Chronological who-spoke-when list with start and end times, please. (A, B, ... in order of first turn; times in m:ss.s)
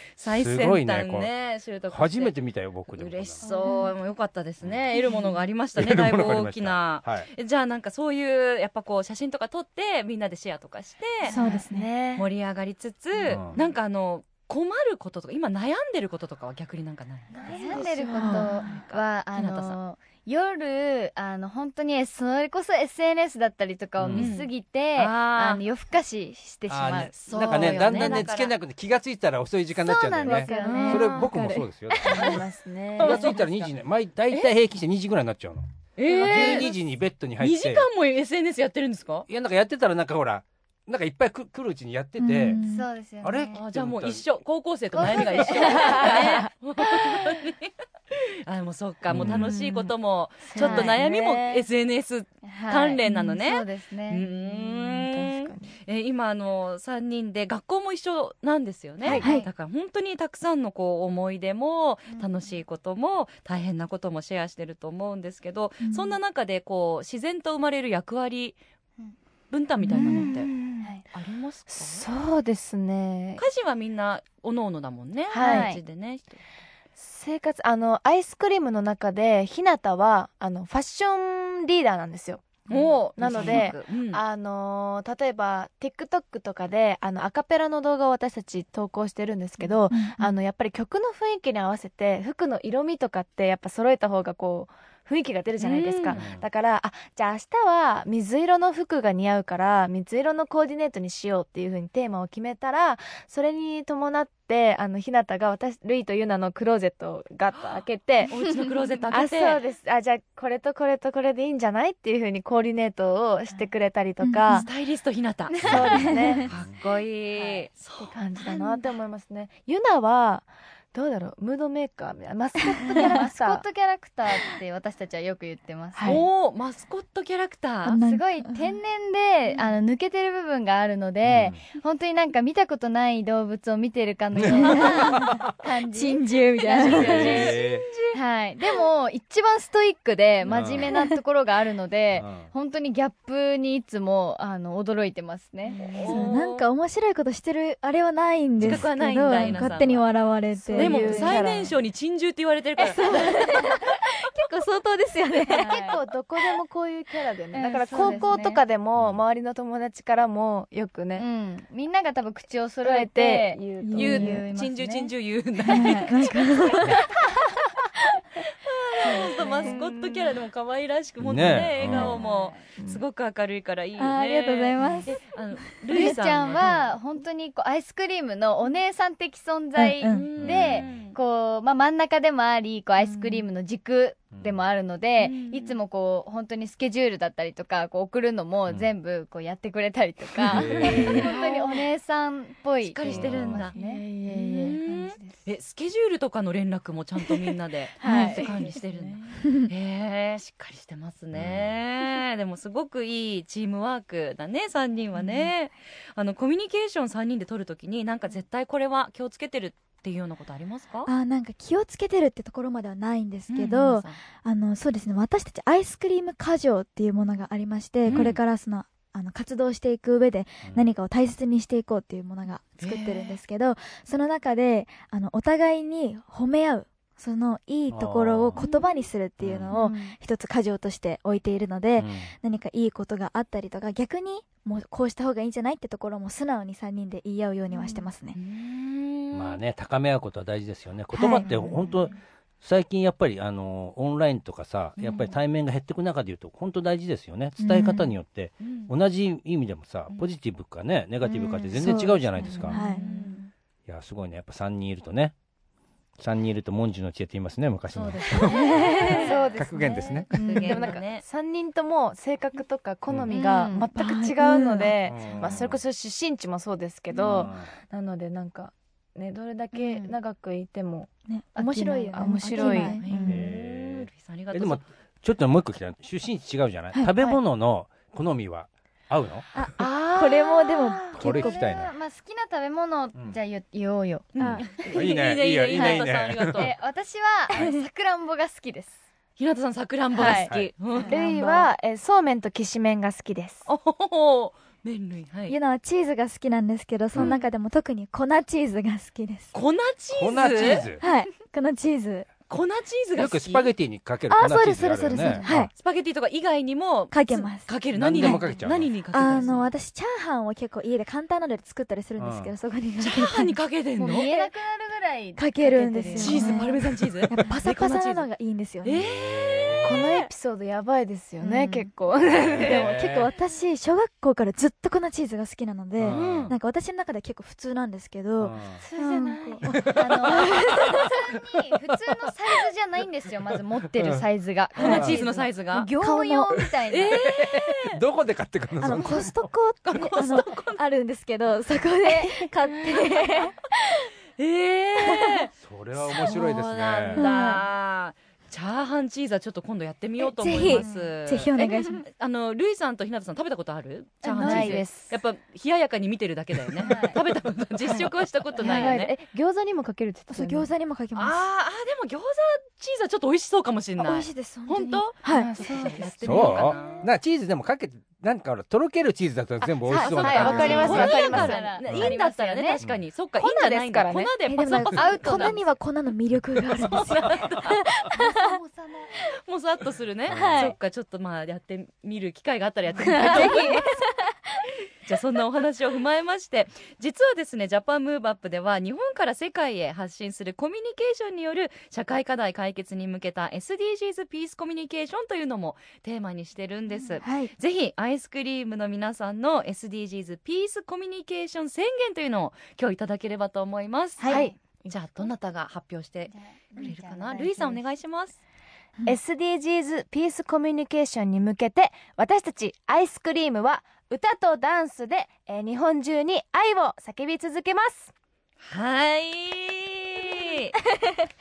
0:00.2-0:02.4 A
0:00.3-0:01.3 B
0:01.9-0:03.4 B
0:02.9-0:11.4 A
0:03.4-0:03.8 C
0:05.8-0:07.3 B
0:11.3-0:12.3 D
0:11.3-0:11.9 E
0:12.2-0:19.8 A
0:13.3-0:13.6 B
0:17.3-0:18.5 D
0:17.4-0:28.3 C
0:17.8-0:18.7 E
0:24.0-0:24.3 B
0:24.1-0:25.6 A
0:26.7-0:32.4 B
0:27.1-0:28.6 A
0:29.8-0:31.3 C
0:30.2-0:31.7 E
0:30.7-0:31.1 D
0:32.0-0:33.6 D
0:32.1-0:32.4 C
0:33.0-0:33.4 A
0:33.0-0:37.9 B
0:36.0-0:36.7 A
0:37.4-0:39.3 A
0:39.3-0:42.6 B
0:42.2-0:42.9 E
0:42.6-0:43.6 C
0:43.2-0:44.2 B
0:43.5-1:08.6 A
0:44.9-0:46.4 C
0:45.7-0:46.2 D
0:49.1-0:49.5 B
0:50.5-0:51.0 D
0:50.5-0:51.6 C
0:52.4-0:54.2 C
0:53.0-0:53.4 E
0:54.3-0:55.8 D
0:59.0-0:59.3 D
0:59.0-0:59.5 C
0:59.1-0:59.4 E
1:05.8-1:06.2 E
1:09.5-1:10.5 A
1:09.9-1:10.3 E
1:09.9-1:11.0 D
1:11.1-1:12.0 A
1:11.7-1:13.4 D
1:13.4-1:16.4 A
1:15.3-1:15.7 D
1:15.3-1:15.8 C
1:17.0-1:48.4 D
1:22.7-1:24.2 A
1:29.9-1:30.3 E
1:35.6-1:36.2 A
1:36.1-1:36.5 B
1:48.3-1:49.6 A
1:49.1-1:54.7 D
1:54.2-1:54.6 E
1:54.5-1:58.2 A
1:55.6-1:56.0 C
1:55.6-1:56.5 D
1:55.9-1:56.4 E
1:56.4-1:56.8 B
1:57.3-1:57.6 C
1:58.1-2:03.6 D
2:03.0-2:06.2 C
2:05.9-2:06.2 D
2:06.0-2:08.0 A
2:07.8-2:08.8 E
2:08.0-2:17.6 C
2:11.2-2:11.6 B
2:14.4-2:15.4 B
2:14.4-2:17.5 E
2:16.8-2:18.2 A
2:16.8-2:17.9 B
2:18.1-2:26.3 C
2:20.5-2:20.9 B
2:22.1-2:22.5 B
2:25.7-2:26.7 A
2:26.0-2:31.7 E
2:28.6-2:28.9 B
2:28.6-2:30.0 A
2:30.6-2:31.6 D
2:30.7-2:33.4 A
2:31.0-2:31.4 C
2:32.8-2:36.0 E
2:35.5-2:36.0 C
2:35.6-2:41.2 D
2:37.5-2:38.6 C
2:39.0-2:39.2 B
2:41.2-2:45.1 C
2:42.8-2:44.2 D
2:43.8-2:44.4 E
2:44.0-2:47.0 A
2:45.7-2:47.1 E
2:48.6-2:57.0 A
2:49.1-2:49.8 C
2:49.2-2:49.8 D
2:51.2-2:52.2 B
2:51.9-2:52.6 C
2:52.7-2:53.0 D
2:54.0-2:55.2 E
2:55.8-2:56.1 E
2:55.9-3:14.0 C
2:59.8-3:00.3 E
3:00.1-3:01.2 A
3:00.4-3:01.0 B
3:03.0-3:03.4 E
3:04.3-3:04.6 B
3:05.2-3:05.8 A
3:10.4-3:11.2 B
3:11.0-3:11.8 D
3:12.8-3:13.8 A
3:13.1-3:13.6 B
3:13.5-3:15.3 D
3:13.8-3:14.7 E
3:14.3-3:31.1 A
3:18.0-3:18.5 C
3:18.0-3:18.7 E
3:19.4-3:19.7 E
3:21.3-3:21.8 B
3:31.0-3:58.4 E
3:33.5-3:34.2 A
3:38.0-3:38.4 B
3:38.1-3:38.4 A
3:42.8-3:43.4 A
3:47.9-3:48.6 B
3:49.4-3:49.8 B
3:49.7-3:50.1 C
3:52.0-3:52.3 B
3:57.7-3:58.0 C
3:58.3-3:59.6 A
3:59.3-4:12.8 B
4:01.1-4:01.5 E
4:05.0-4:05.4 A
4:07.6-4:08.1 E
4:08.6-4:08.9 A
4:11.2-4:13.0 E
4:12.5-4:13.4 A
4:12.7-4:13.3 C
4:13.8-4:15.3 B
4:16.2-4:18.7 B
4:17.9-4:19.5 A
4:18.5-4:19.2 E
4:18.7-4:20.2 C
4:19.1-4:33.0 D
4:19.6-4:20.3 B
4:20.0-4:21.2 A
4:20.4-4:20.8 E
4:23.3-4:23.9 C
4:23.9-4:25.0 E
4:25.0-4:25.8 B
4:27.2-4:27.5 E
4:27.2-4:27.7 B
4:29.7-4:30.1 C
4:31.3-4:33.5 E
4:31.6-4:33.0 C
4:32.9-4:34.8 A
4:33.2-4:39.5 B
4:39.5-4:41.6 E
4:39.8-4:41.1 D
4:40.4-4:45.0 C
4:41.1-4:41.9 B
4:44.4-4:46.7 B
4:44.4-4:44.7 E
4:44.6-4:46.7 A
4:45.7-4:49.0 C
4:47.5-4:47.8 E
4:49.4-4:51.1 A
4:50.2-4:51.7 C
4:50.2-4:50.7 B
4:51.0-4:53.7 D
4:53.7-4:55.6 A
4:55.5-4:59.5 E
4:59.5-5:00.9 A
5:00.1-5:01.0 B
5:00.6-5:02.3 E
5:02.5-5:03.7 A
5:03.1-5:05.7 B
5:04.3-5:05.7 E
5:05.7-5:09.7 A
5:07.1-5:08.4 E
5:07.9-5:09.5 B
5:09.1-5:13.6 E
5:12.2-5:12.5 B
5:13.0-5:14.5 A
5:14.0-5:16.7 C
5:15.4-5:19.0 E
5:16.2-5:18.3 A
5:18.8-5:20.1 A
5:18.9-5:20.0 B
5:19.8-5:22.9 D
5:21.4-5:21.9 C
5:22.3-5:23.3 B
5:22.6-5:31.1 E
5:26.0-5:26.5 B
5:26.1-5:26.5 A
5:28.4-5:28.8 B
5:28.8-5:29.6 D
5:29.4-5:37.2 C
5:29.7-5:30.4 B
5:33.9-5:34.2 B
5:34.8-5:35.2 B
5:34.8-5:35.9 A
5:34.8-5:35.2 E
5:35.7-5:36.6 E
5:36.9-5:37.8 A
5:37.3-5:39.4 B
5:38.8-5:44.1 E
5:39.8-5:40.8 A
5:44.4-5:45.5 A
5:45.0-5:45.5 E
5:45.6-5:47.2 B
5:46.1-5:59.1 A
5:47.1-5:47.6 E
5:50.2-5:52.0 E
5:54.2-5:54.9 C
5:54.4-5:55.1 D
5:56.8-5:57.2 C
5:57.8-6:00.7 D
5:58.6-5:59.0 C
6:00.3-6:01.4 E
6:01.1-6:07.1 A
6:04.0-6:05.5 E
6:05.2-6:07.0 D
6:06.2-6:12.2 B
6:09.8-6:11.8 D
6:09.9-6:12.8 C
6:10.1-6:15.6 A
6:10.6-6:11.0 E
6:13.4-6:14.3 D
6:14.5-6:18.6 E
6:14.9-6:15.6 C
6:16.7-6:17.9 A
6:18.3-6:19.1 C
6:19.4-6:23.9 A
6:20.3-6:20.6 B
6:20.3-6:20.8 E
6:23.0-6:24.6 E
6:23.0-6:23.7 D
6:23.3-6:23.6 C
6:25.0-6:48.4 A
6:37.2-6:37.5 E
6:44.2-6:45.1 D
6:46.3-6:47.8 C
6:49.0-6:58.1 D
6:58.6-7:00.7 A